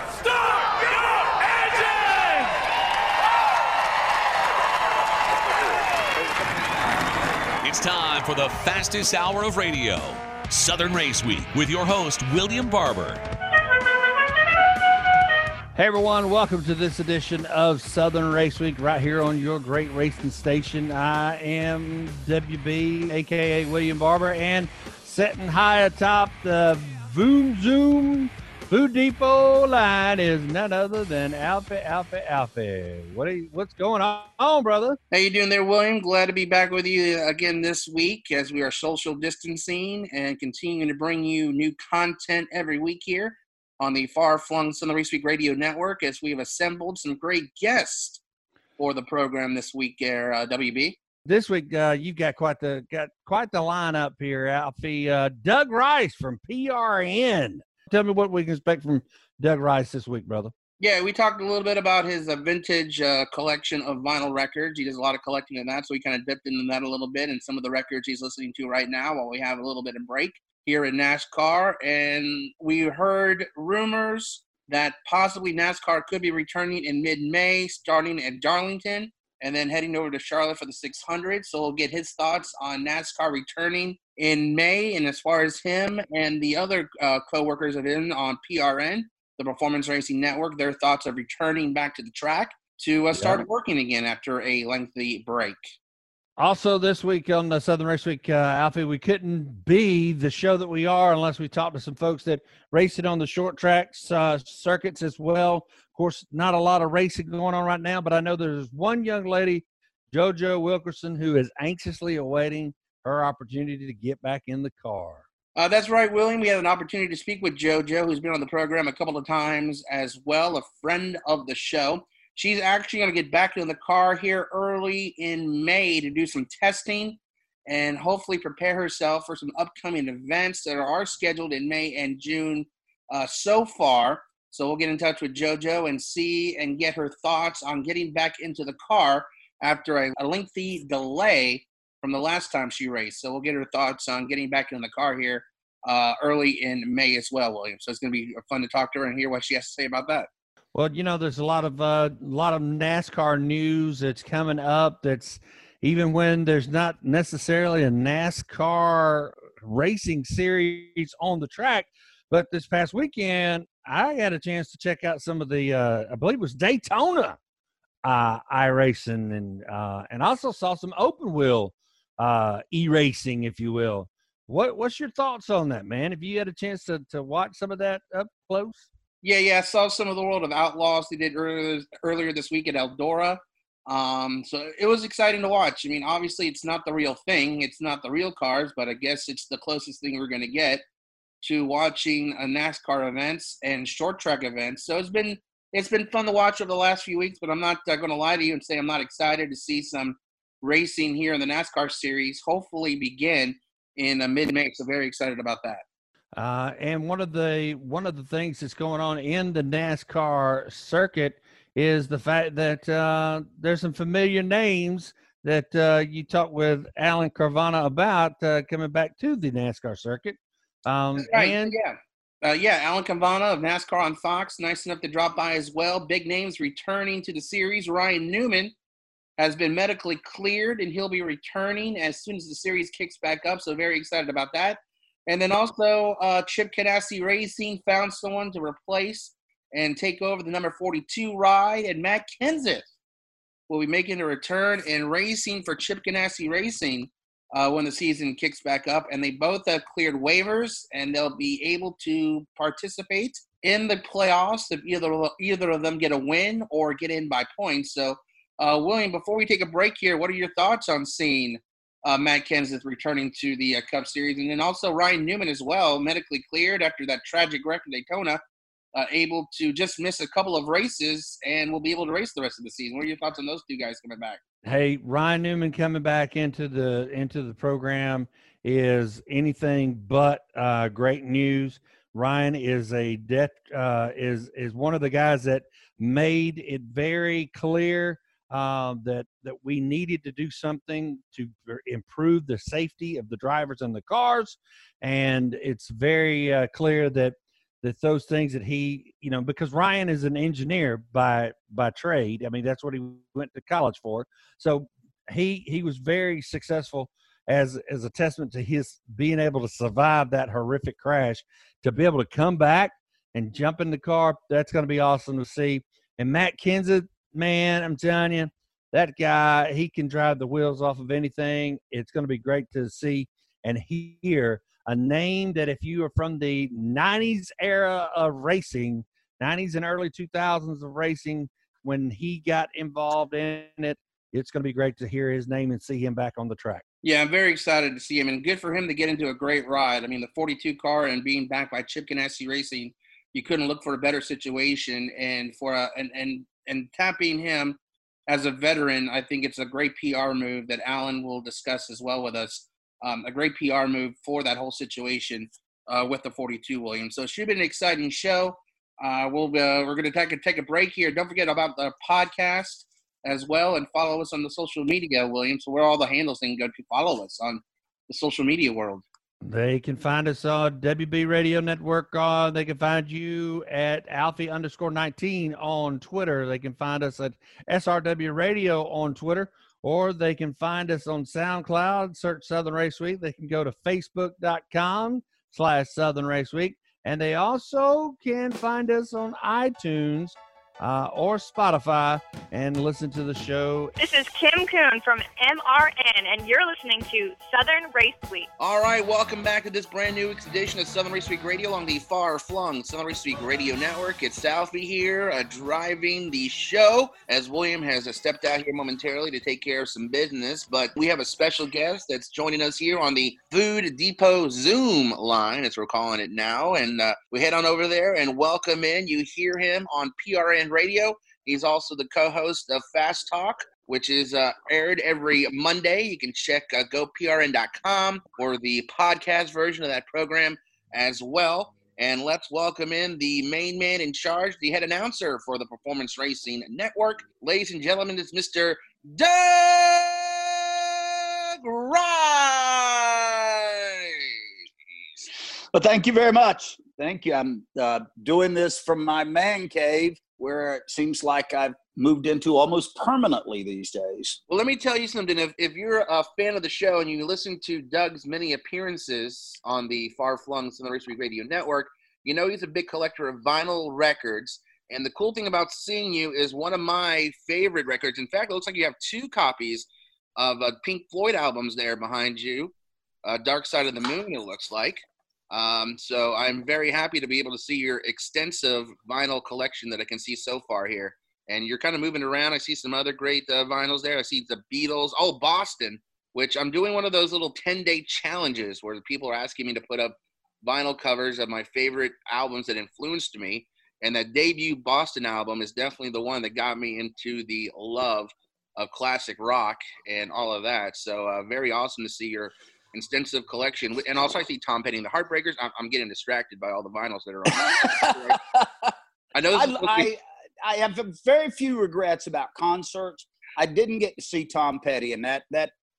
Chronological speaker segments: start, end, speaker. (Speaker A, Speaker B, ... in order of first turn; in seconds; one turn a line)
Speaker A: 0.2-2.5
Speaker B: 7.6-13.2
Speaker A: 15.8-35.0
Speaker C: 35.1-48.2
Speaker C: 48.8-51.0
Speaker A: 51.3-60.5
Speaker C: 60.8-95.7
Speaker A: 93.1-93.5
Speaker A: 96.4-115.2
Speaker C: 115.6-150.3
Speaker A: 150.8-167.4
Speaker A: 168.0-178.9
Speaker C: 179.2-190.8
Speaker C: 191.4-205.8
Speaker A: 206.3-221.7
Speaker C: 221.2-228.7
Speaker C: 229.4-242.9
Speaker C: 243.7-268.4
Speaker C: 268.9-274.4
Speaker A: 274.6-336.8
Speaker C: 337.0-369.0
Speaker A: 369.4-393.9
Speaker D: 394.0-398.5
Speaker C: 398.6-444.3
Speaker E: 445.7-454.4
Speaker C: 454.5-472.7
Speaker C: 473.2-508.4
Speaker E: 507.6-508.9
Speaker C: 509.3-510.1
Speaker E: 509.5-515.7